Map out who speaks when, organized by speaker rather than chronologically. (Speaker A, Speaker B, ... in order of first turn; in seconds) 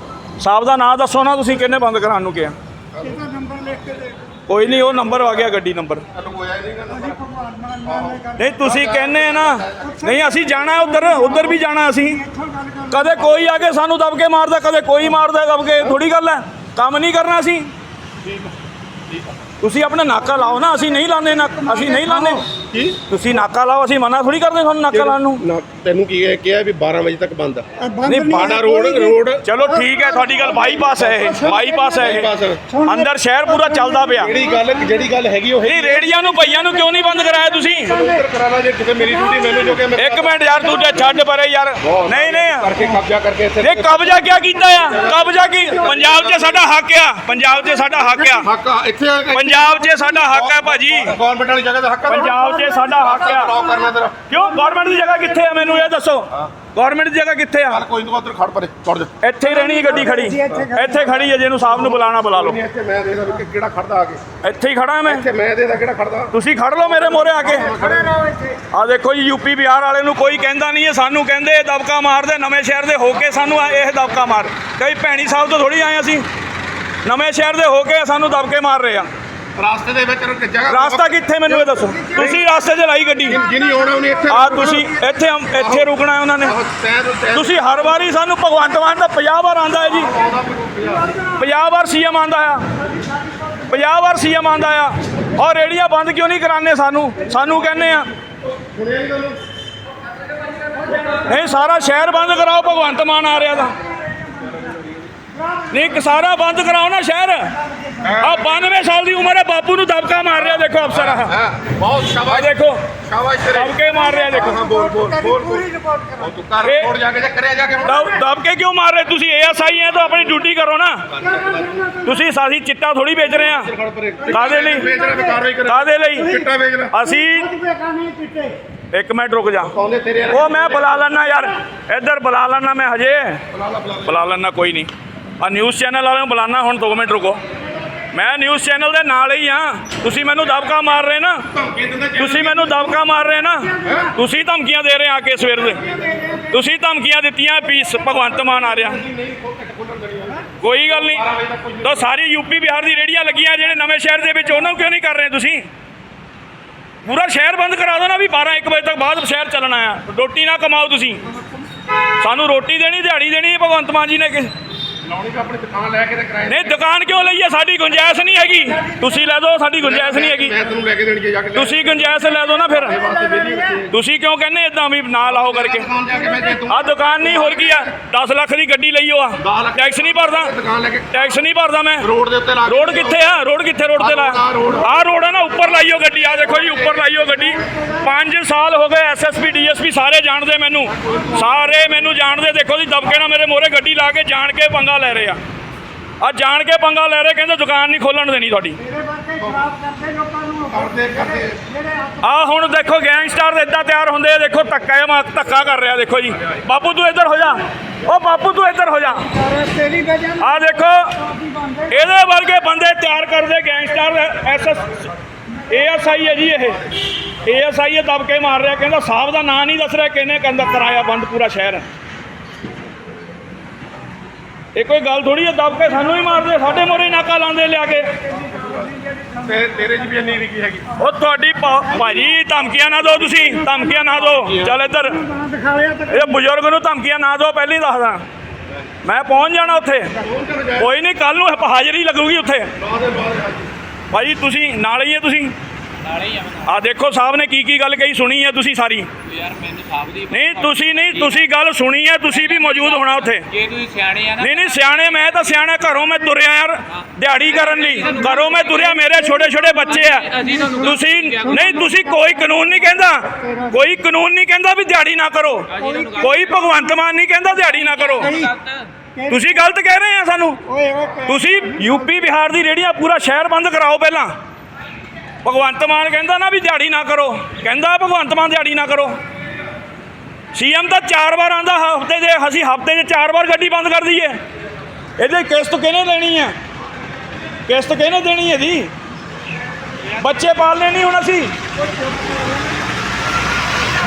Speaker A: 0.4-2.5, 4.5-6.0, 8.3-12.2, 12.9-17.7, 19.6-22.5, 23.1-25.4, 28.0-28.7, 29.4-32.3, 32.8-34.4, 35.6-37.9, 39.9-42.7, 43.6-48.5, 49.3-51.2, 52.1-53.5, 54.3-57.8, 59.2-62.6, 64.4-65.2, 66.3-67.7, 68.7-76.2, 77.0-79.1, 80.7-83.4, 84.3-86.6, 87.3-90.1, 91.3-92.7, 93.7-98.1, 101.2-103.7, 105.7-107.5, 108.2-111.4, 112.2-112.8, 113.5-114.6, 116.6-116.9, 117.8-121.1, 122.0-123.7, 124.3-124.9, 125.7-126.4, 126.9-127.5, 128.9-129.7, 130.3-133.4, 134.0-137.4, 138.1-141.5, 142.2-145.9, 146.5-149.0, 150.6-151.2, 151.8-155.6, 157.0-161.2, 162.2-164.5, 166.5-170.5, 171.5-173.0, 173.9-175.9, 176.7-180.5, 181.1-182.1, 182.7-195.4, 196.2-198.8, 202.2-209.3, 210.4-211.2, 211.9-215.1, 215.7-216.8, 217.4-221.9, 224.7-228.1, 230.9-235.3, 236.1-238.2, 239.0-240.1, 240.8-242.7, 244.1-245.5, 246.6-249.1, 250.3-253.5, 254.4-268.4, 269.3-270.6, 271.2-274.3, 275.4-279.2, 280.5-284.4, 285.2-286.5, 287.7-288.9, 290.1-291.5
Speaker B: 3.1-4.1, 7.1-8.3, 10.1-11.6, 12.1-13.2, 21.4-22.4, 27.8-29.2, 29.7-30.4, 31.1-32.0, 32.7-33.0, 33.7-34.4, 52.4-53.0, 59.6-61.0, 67.8-68.6, 114.1-116.3, 121.3-122.0, 127.2-128.6, 198.8-202.2, 209.3-210.5, 211.2-211.9, 229.1-229.4, 235.1-236.2, 260.6-260.9, 261.6-262.2, 263.4-263.7, 265.8-266.1, 268.2-268.5, 270.7-271.4
Speaker C: 6.1-7.2, 7.8-10.0, 18.2-18.5, 19.1-19.3, 22.7-23.0, 24.9-27.6, 28.2-29.4, 30.4-31.2, 31.9-32.6, 34.2-36.1, 37.9-40.3, 41.8-44.1, 44.9-46.6, 48.2-54.2, 57.7-59.1, 60.4-60.8, 61.7-64.2, 65.1-68.2, 79.5-82.4, 83.3-84.9, 85.5-85.9, 86.4-87.8, 89.9-91.2, 98.5-99.4, 108.0-108.5, 110.9-113.8, 114.3-115.7, 116.2-118.1, 121.1-121.8, 123.2-126.9, 129.6-131.0, 133.5-134.2, 141.5-142.9, 143.8-144.1, 145.8-146.3, 148.3-152.1, 165.0-166.8, 169.8-173.9, 175.2-177.9, 179.4-181.2, 182.0-183.2, 184.0-184.9, 186.6-187.0, 191.0-191.6, 199.4-199.7, 200.7-201.6, 229.4-230.9, 234.3-234.7, 240.2-240.9, 242.8-243.7
Speaker D: 246.1-246.6, 249.3-250.3, 253.5-254.4, 260.2-260.6, 265.8-266.2